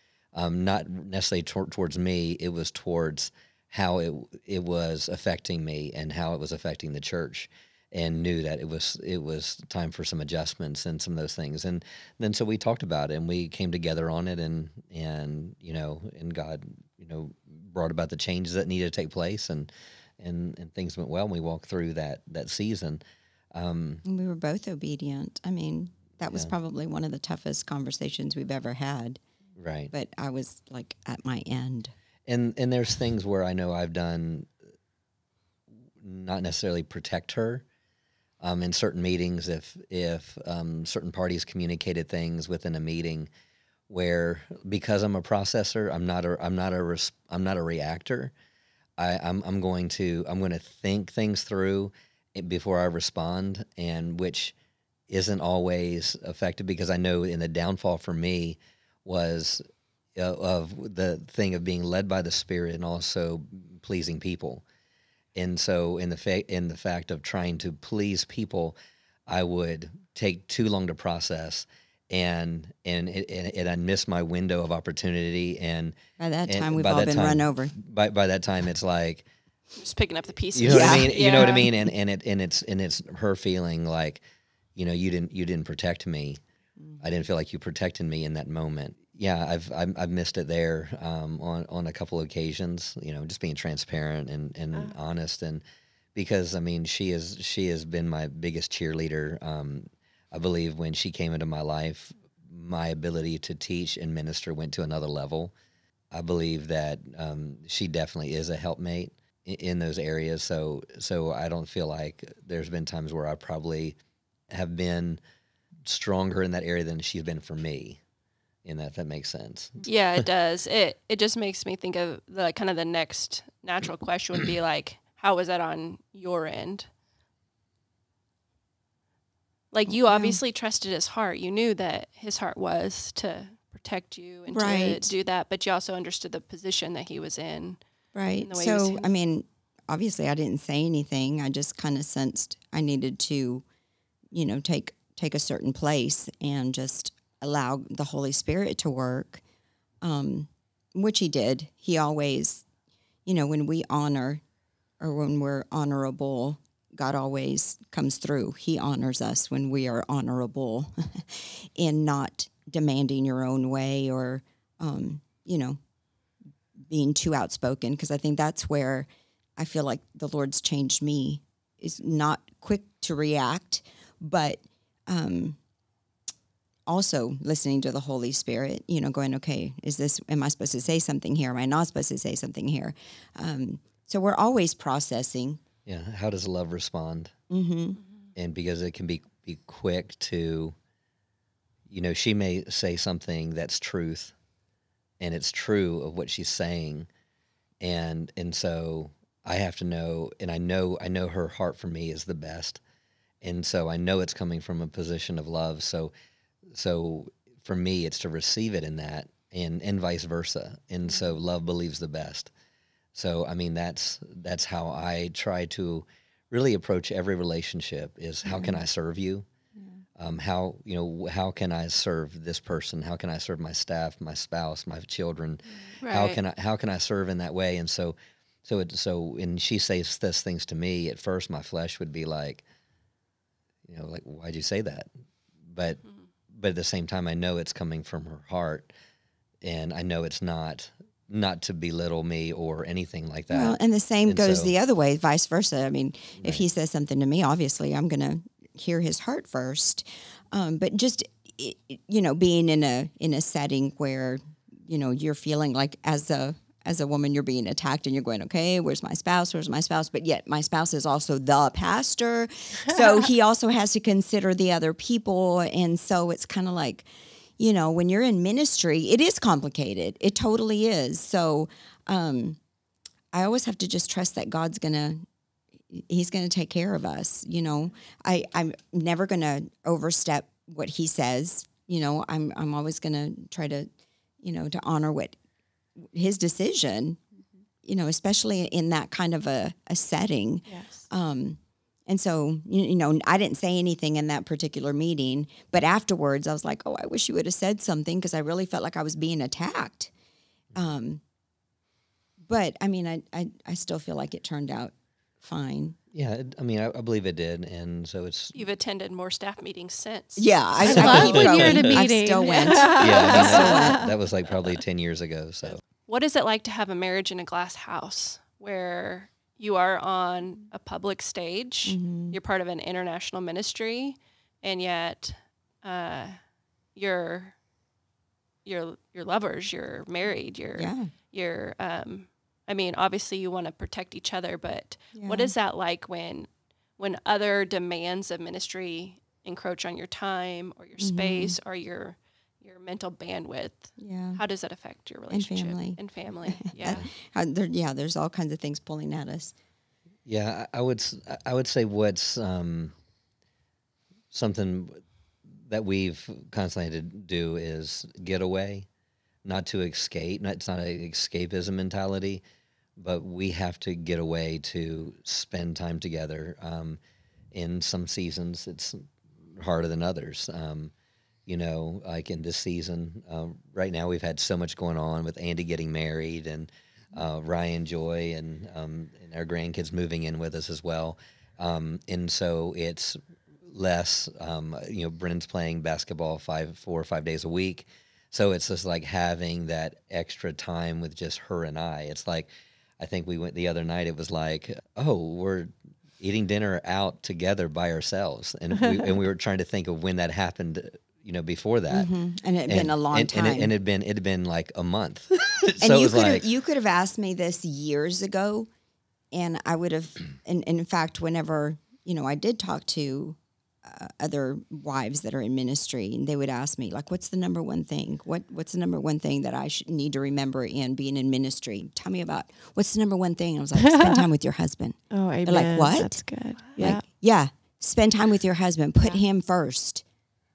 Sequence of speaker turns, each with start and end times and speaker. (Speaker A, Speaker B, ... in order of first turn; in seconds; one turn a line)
Speaker A: 0.3-23.0
Speaker A: 23.5-24.0
Speaker B: 24.1-29.2
Speaker A: 29.6-29.9
Speaker B: 29.9-31.9
Speaker A: 32.3-34.5
Speaker A: 36.0-37.6
Speaker A: 38.4-43.3
Speaker A: 43.9-48.3
Speaker A: 49.0-54.5
Speaker A: 55.1-59.6
Speaker A: 60.2-64.6
Speaker A: 65.3-68.8
Speaker A: 69.3-79.2
Speaker B: 76.2-77.7
Speaker C: 79.8-81.7
Speaker A: 80.5-84.2
Speaker B: 80.7-81.7
Speaker A: 84.8-86.4
Speaker A: 87.0-95.6
Speaker A: 96.2-105.5
Speaker A: 106.1-114.0
Speaker A: 114.5-115.2
Speaker A: 115.8-118.0
Speaker A: 118.7-119.8
Speaker C: 119.8-126.9
Speaker C: 129.7-137.8
Speaker B: 129.9-130.4
Speaker B: 134.5-135.1
Speaker B: 138.1-143.6
Speaker C: 138.4-139.1
Speaker B: 144.3-149.4
Speaker B: 150.0-152.7
Speaker B: 153.3-154.4
Speaker B: 155.0-165.8
Speaker B: 166.9-175.6
Speaker B: 176.9-185.6
Speaker A: 185.9-187.3
Speaker B: 187.5-188.0
Speaker A: 188.4-190.8
Speaker A: 191.9-194.3
Speaker A: 195.2-197.1
Speaker A: 197.8-202.8
Speaker A: 203.4-206.1
Speaker A: 206.7-212.5
Speaker A: 213.1-219.5
Speaker B: 218.4-218.8
Speaker A: 220.2-232.6
Speaker C: 226.0-226.4
Speaker A: 233.9-235.1
Speaker A: 235.7-238.9
Speaker A: 239.6-244.7
Speaker B: 243.5-267.1
Speaker A: 246.4-246.6
Speaker B: 267.6-272.6
Speaker B: 273.3-275.2
Speaker B: 275.9-283.9
Speaker B: 284.4-285.4
Speaker B: 286.0-287.2
Speaker B: 287.8-300.1
Speaker D: 290.7-290.9
Speaker B: 300.8-301.2
Speaker B: 302.4-306.0
Speaker A: 306.1-308.6
Speaker C: 308.5-310.5
Speaker B: 310.4-314.1
Speaker A: 310.8-312.1
Speaker D: 310.8-314.1
Speaker A: 312.8-315.8
Speaker C: 316.1-326.4
Speaker B: 321.9-322.4
Speaker C: 326.9-327.6
Speaker C: 328.6-347.0
Speaker B: 330.8-331.1
Speaker B: 335.1-335.5
Speaker B: 341.0-341.6
Speaker B: 344.0-344.4
Speaker B: 345.3-349.6
Speaker A: 350.3-352.9
Speaker A: 354.3-355.0
Speaker A: 355.7-358.9
Speaker A: 359.4-362.4
Speaker A: 363.0-367.0
Speaker A: 367.5-369.0
Speaker A: 369.6-370.9
Speaker A: 371.5-392.5
Speaker A: 393.0-402.1
Speaker B: 401.9-403.7
Speaker A: 402.7-406.4
Speaker B: 405.8-408.7
Speaker B: 409.3-426.2
Speaker D: 423.9-424.2
Speaker D: 425.1-427.0
Speaker B: 426.8-430.0